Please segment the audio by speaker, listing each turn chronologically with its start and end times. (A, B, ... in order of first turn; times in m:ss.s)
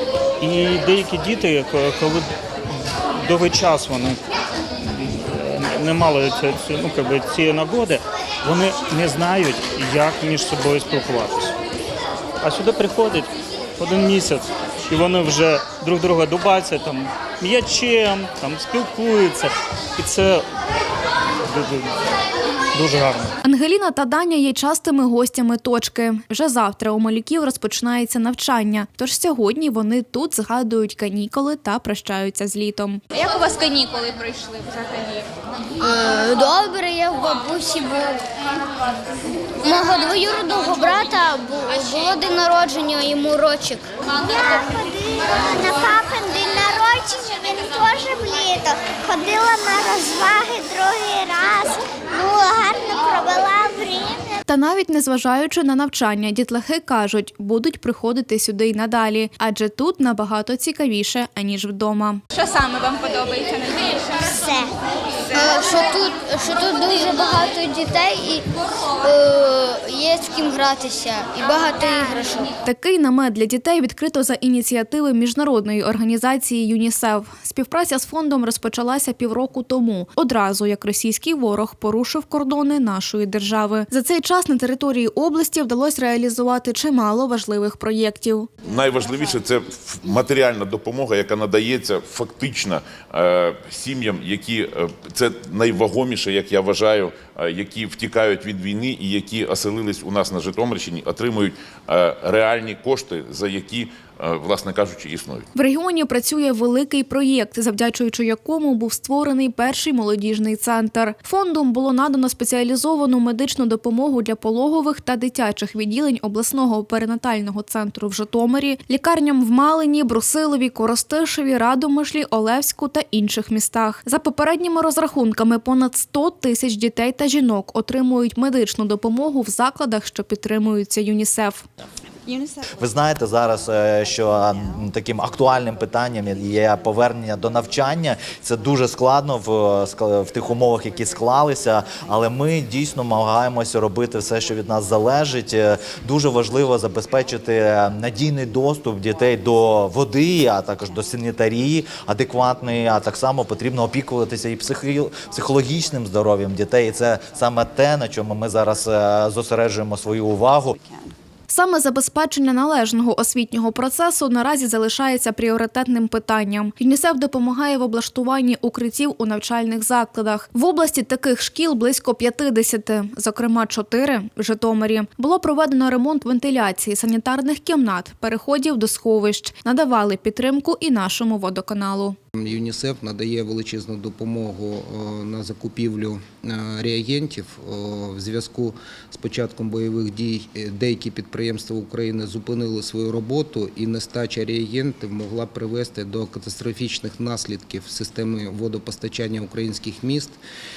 0:00.4-0:02.3 A
0:03.1-0:04.2 A
0:04.9-0:11.5 A
0:12.4-0:20.4 A
0:21.5-0:21.9 A
0:22.7-0:23.3 A
0:23.4-0:33.0 B
0:33.1-0:35.2 C
0:35.8-0:38.3 D
0:39.6-0:43.9 D
0:44.1-0:54.4 E
0:54.5-1:02.2 B
1:02.3-1:04.2 C
1:04.4-1:04.7 D
1:05.3-1:08.5 D
1:09.0-1:12.5 D
1:12.6-1:28.5 B
1:28.6-1:45.4 F
1:45.5-2:11.6 B
2:12.7-2:40.8 G
2:41.5-3:02.1 B
3:02.4-3:20.4 H